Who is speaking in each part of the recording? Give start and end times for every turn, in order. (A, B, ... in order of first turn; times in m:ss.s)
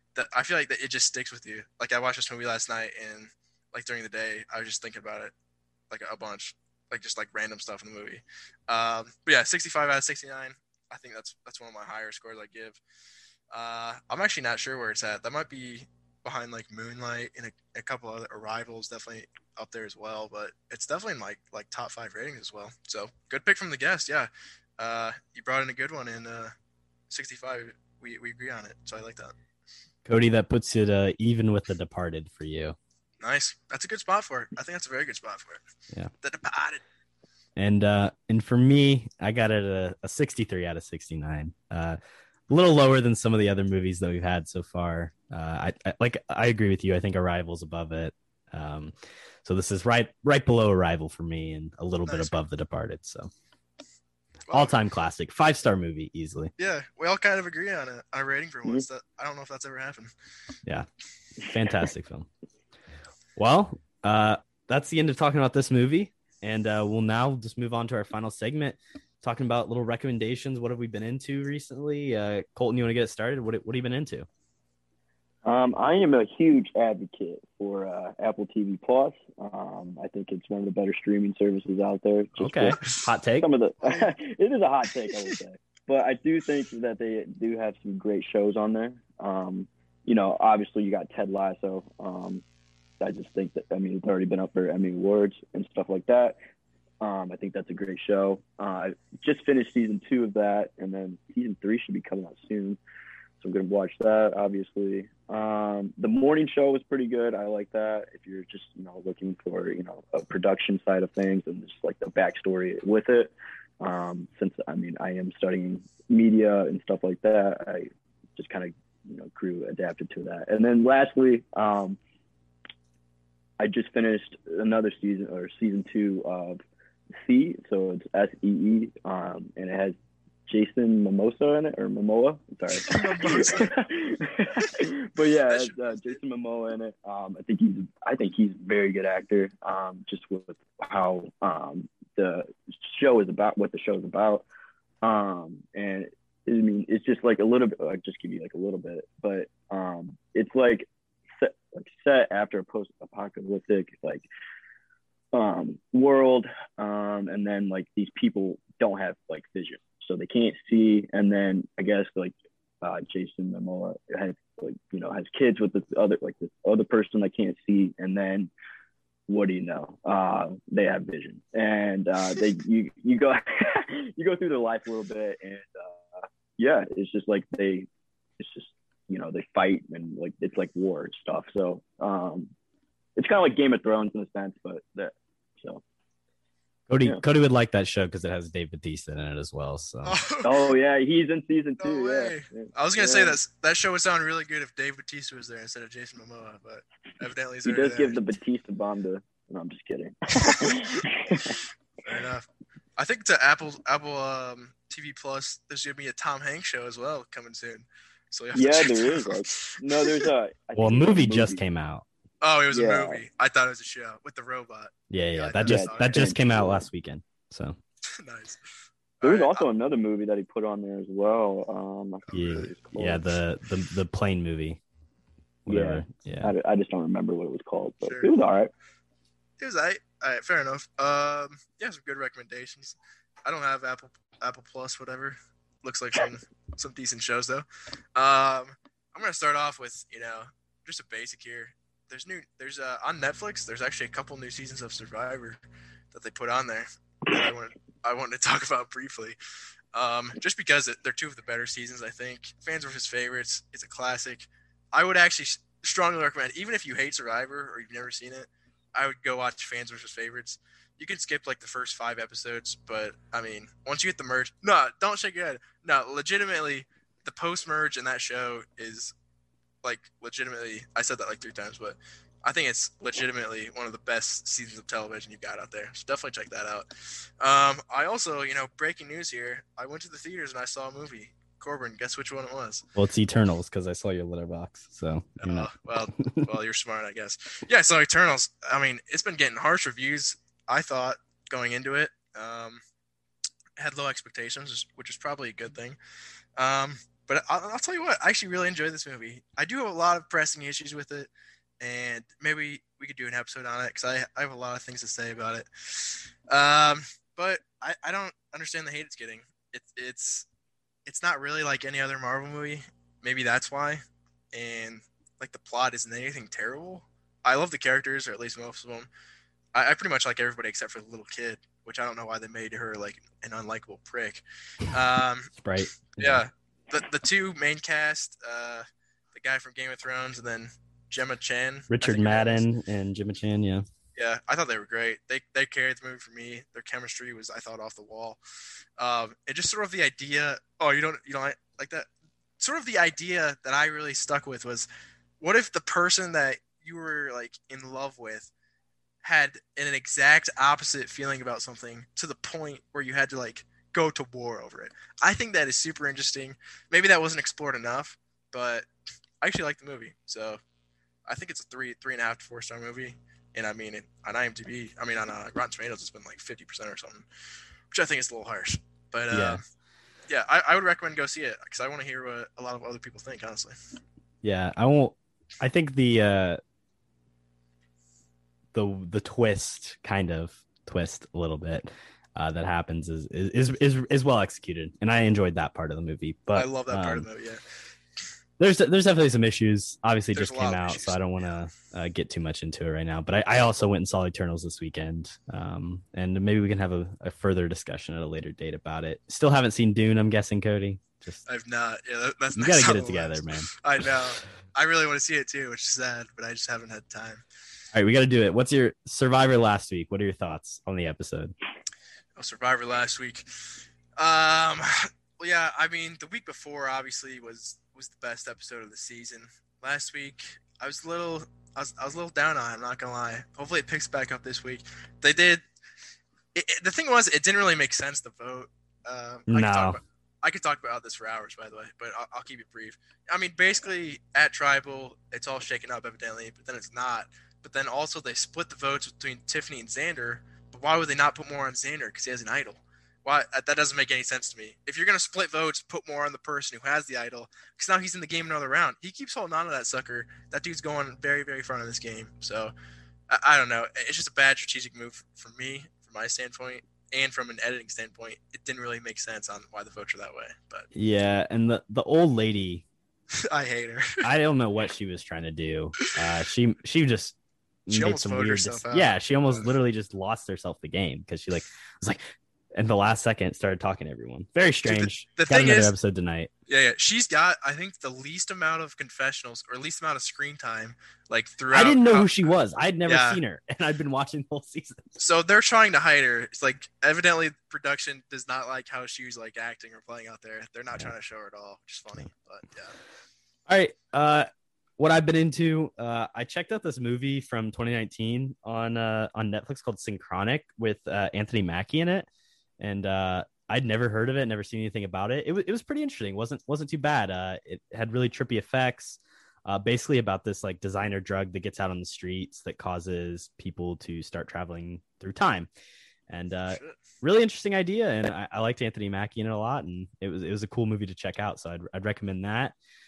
0:00.2-0:05.3 A
0:05.9-0:12.8 A
0:13.5-0:26.5 A
0:27.1-0:29.4 A
0:30.0-0:32.8 B
0:33.2-0:35.6 A
0:36.2-0:36.8 A
0:37.6-0:42.0 B
0:42.5-0:53.3 B
0:52.1-0:52.4 A
0:54.5-0:54.8 A
0:54.5-0:56.5 B
0:56.6-1:00.1 A
1:01.4-1:02.3 B
1:03.4-1:14.3 B
1:15.4-1:22.8 C
1:22.4-1:23.5 B
1:23.4-1:32.4 C
1:33.0-1:36.4 C
1:37.0-1:42.8 C
1:43.4-2:02.0 C
2:03.6-2:06.6 C
2:07.2-2:10.0 C
2:10.5-2:24.4 C
2:12.8-2:13.8 A
2:14.6-2:14.9 A
2:15.5-2:15.8 A
2:25.0-2:34.3 C
2:35.3-2:48.5 C
2:49.3-3:02.5 C
3:03.2-3:05.8 C
3:06.9-3:10.2 B
3:10.0-3:10.7 A
3:10.4-3:13.4 C
3:11.8-3:18.2 A
3:17.6-3:21.6 C
3:20.4-3:21.5 A
3:22.0-3:30.3 A
3:28.5-3:31.6 C
3:30.8-3:32.0 B
3:32.4-3:36.4 A
3:32.7-3:33.2 C
3:35.1-3:37.8 B
3:35.6-3:36.9 C
3:38.2-3:38.6 A
3:39.2-3:39.7 A
3:39.2-3:43.3 C
3:42.3-3:42.7 A
3:42.3-3:44.8 B
3:45.7-3:46.5 B
3:45.7-3:48.7 C
3:48.0-3:48.3 A
3:49.6-4:05.6 A
4:06.1-4:09.4 A
4:09.9-4:29.1 A
4:29.8-4:36.9 A
4:37.4-4:42.9 A
4:43.0-4:45.7 B
4:45.4-4:52.8 A
4:53.8-4:56.0 A
4:56.6-5:10.5 A
5:11.1-5:14.0 A
5:14.5-5:19.1 A
5:19.8-5:25.5 A
5:25.6-5:26.4 B
5:26.1-5:32.6 A
5:31.9-5:33.8 B
5:34.2-5:38.4 A
5:39.0-5:42.1 A
5:42.6-5:44.9 A
5:45.4-5:48.5 A
5:49.2-5:58.9 A
5:59.4-6:00.6 A
6:01.3-6:07.3 A
6:07.9-6:09.6 A
6:09.3-6:09.6 B
6:10.3-6:13.8 A
6:14.4-6:16.6 B
6:18.7-6:27.3 B
6:26.6-6:27.6 A
6:28.6-6:41.4 B
6:30.3-6:31.2 A
6:41.5-6:47.4 A
6:42.6-6:43.7 B
6:47.9-6:51.5 B
6:52.4-7:05.6 A
7:06.6-7:32.7 A
7:09.5-7:10.0 B
7:33.3-7:40.9 A
7:40.9-7:42.8 B
7:43.3-7:44.2 A
7:44.2-7:47.4 B
7:47.9-7:56.5 B
7:47.9-7:49.7 A
7:54.9-7:55.9 A
7:56.7-8:02.5 A
8:01.7-8:05.0 B
8:03.1-8:03.4 A
8:05.2-8:13.0 A
8:13.7-8:22.3 B
8:22.8-8:35.7 B
8:36.3-8:42.8 B